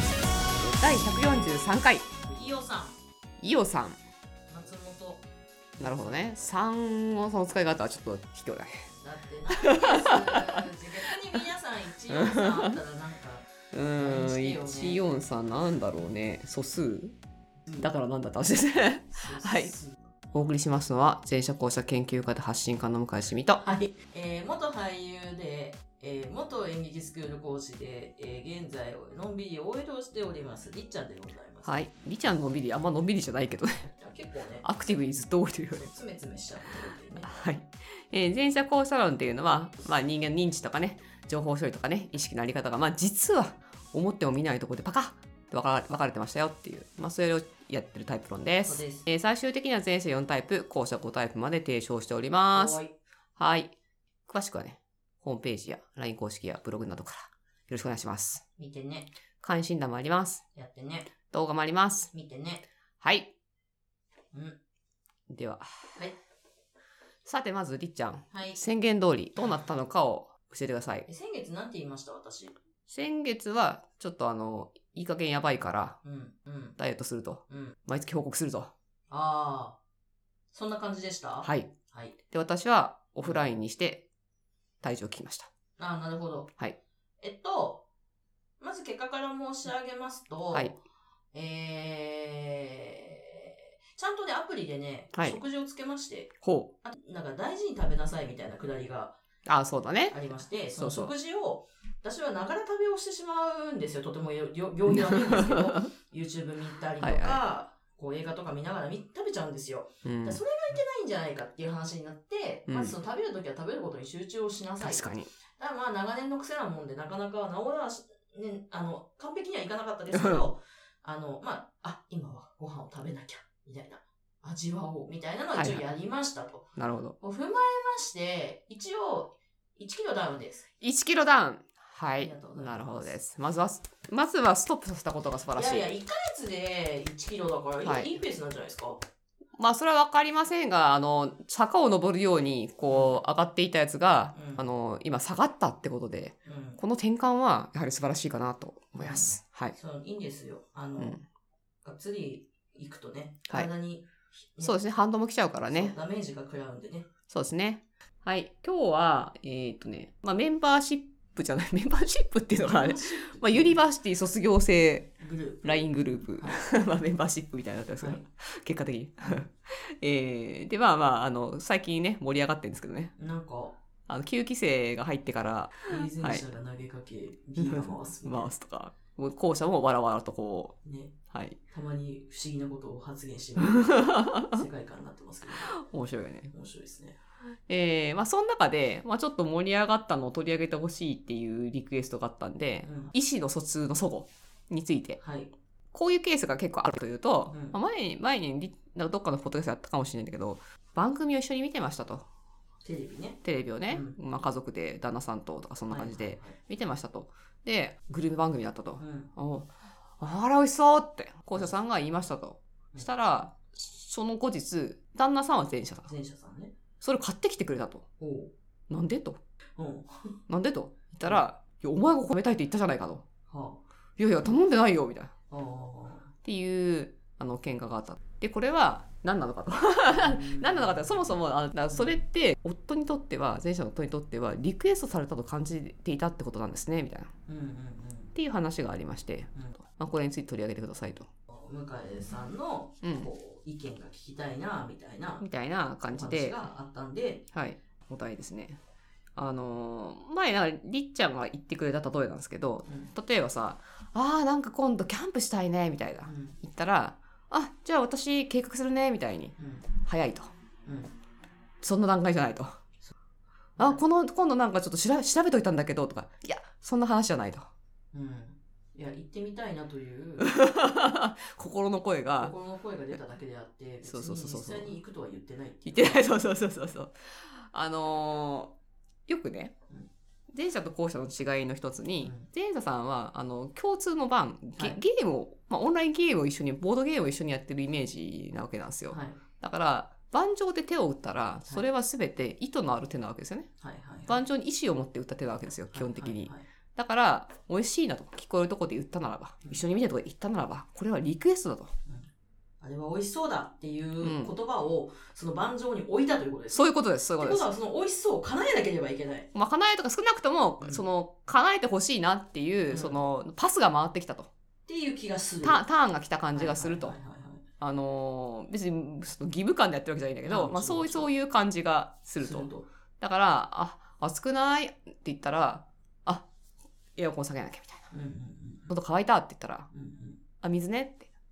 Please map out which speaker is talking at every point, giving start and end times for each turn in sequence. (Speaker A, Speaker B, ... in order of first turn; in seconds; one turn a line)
Speaker A: 0.7-2.1
Speaker B: 2.2-3.0
Speaker A: 3.4-4.0
Speaker B: 4.5-5.2
Speaker B: 5.8-6.5
Speaker A: 5.8-8.7
Speaker B: 8.9-15.0
Speaker A: 9.5-10.6
Speaker A: 12.1-12.8
Speaker A: 13.7-17.1
Speaker A: 17.8-19.7
Speaker B: 19.1-20.0
Speaker A: 20.3-23.6
Speaker B: 23.6-31.9
Speaker A: 31.6-33.8
Speaker B: 33.8-34.6
Speaker A: 34.6-35.9
Speaker B: 35.7-37.3
Speaker A: 37.2-52.8
Speaker B: 48.6-49.1
Speaker B: 52.5-52.9
Speaker A: 53.4-53.7
Speaker A: 54.3-58.4
Speaker B: 58.6-59.1
Speaker A: 59.4-60.4
Speaker B: 60.5-61.1
Speaker A: 61.3-62.1
Speaker B: 62.1-62.6
Speaker A: 63.0-63.3
Speaker B: 64.3-64.6
Speaker A: 65.3-66.0
Speaker A: 67.2-71.1
Speaker B: 68.3-68.6
Speaker B: 69.4-69.7
Speaker B: 71.1-72.5
Speaker A: 72.9-76.0
Speaker B: 76.0-76.8
Speaker A: 76.8-78.7
Speaker B: 77.5-77.7
Speaker B: 79.1-79.8
Speaker B: 80.5-82.2
Speaker A: 81.4-81.7
Speaker A: 82.3-84.0
Speaker B: 83.2-83.5
Speaker A: 84.8-85.5
Speaker B: 85.8-86.5
Speaker B: 87.2-87.8
Speaker B: 88.6-90.8
Speaker B: 91.3-99.2
Speaker A: 95.1-95.4
Speaker A: 96.4-96.7
Speaker A: 99.5-100.2
Speaker B: 100.1-130.7
Speaker A: 100.7-101.1
Speaker A: 104.9-105.8
Speaker A: 107.0-107.4
Speaker A: 110.0-110.4
Speaker A: 112.7-113.0
Speaker A: 114.8-115.3
Speaker A: 120.1-120.5
Speaker A: 125.5-125.8
Speaker A: 126.8-127.2
Speaker A: 130.8-135.9
Speaker B: 132.2-133.2
Speaker B: 135.5-139.0
Speaker A: 137.8-138.1
Speaker A: 139.6-149.7
Speaker B: 142.9-143.2
Speaker B: 144.3-144.7
Speaker B: 146.4-146.8
Speaker B: 149.0-151.2
Speaker B: 151.8-154.8
Speaker A: 154.6-155.9
Speaker B: 155.6-157.1
Speaker A: 157.3-173.1
Speaker B: 162.5-163.8
Speaker B: 165.2-166.6
Speaker B: 173.2-173.8
Speaker A: 174.1-176.4
Speaker B: 175.9-178.5
Speaker A: 177.6-180.7
Speaker B: 180.8-181.1
Speaker A: 181.3-181.6
Speaker B: 181.7-185.7
Speaker A: 183.6-184.6
Speaker A: 185.6-186.5
Speaker B: 186.5-187.2
Speaker A: 187.7-195.2
Speaker B: 192.8-193.1
Speaker B: 195.2-195.5
Speaker A: 195.9-202.2
Speaker B: 197.5-197.8
Speaker B: 202.8-204.2
Speaker A: 203.4-216.1
Speaker B: 205.9-206.6
Speaker B: 209.0-209.3
Speaker B: 216.1-216.8
Speaker A: 217.0-218.0
Speaker B: 218.2-218.5
Speaker A: 218.9-219.4
Speaker B: 219.8-220.3
Speaker A: 220.5-223.2
Speaker B: 223.5-223.8
Speaker A: 224.2-225.3
Speaker B: 225.5-226.3
Speaker A: 226.4-237.3
Speaker B: 230.1-231.3
Speaker B: 231.9-232.1
Speaker B: 237.5-238.3
Speaker A: 238.3-241.3
Speaker B: 241.5-245.4
Speaker A: 243.0-243.3
Speaker A: 245.4-246.6
Speaker B: 246.1-247.4
Speaker A: 247.5-248.8
Speaker A: 249.3-260.5
Speaker B: 252.9-253.1
Speaker B: 256.2-256.6
Speaker B: 259.6-259.9
Speaker B: 260.8-261.1
Speaker A: 261.8-262.8
Speaker A: 263.8-267.7
Speaker B: 268.1-270.5
Speaker A: 270.4-272.5
Speaker B: 272.4-276.3
Speaker A: 274.0-274.9
Speaker A: 275.8-278.7
Speaker A: 279.3-279.7
Speaker A: 280.5-293.7
Speaker B: 282.2-282.5
Speaker B: 289.1-289.4
Speaker B: 293.8-294.4
Speaker A: 294.3-301.9
Speaker B: 295.9-296.6
Speaker B: 302.8-309.5
Speaker A: 304.2-304.5
Speaker A: 306.7-307.6
Speaker A: 309.5-314.5
Speaker B: 312.9-313.2
Speaker B: 314.9-315.8
Speaker A: 315.6-317.2
Speaker B: 316.5-317.6
Speaker A: 317.8-322.7
Speaker B: 320.4-321.3
Speaker B: 322.4-322.9
Speaker A: 323.2-326.5
Speaker A: 327.1-328.1
Speaker B: 328.1-328.9
Speaker A: 328.9-329.9
Speaker B: 329.9-330.4
Speaker A: 330.6-331.3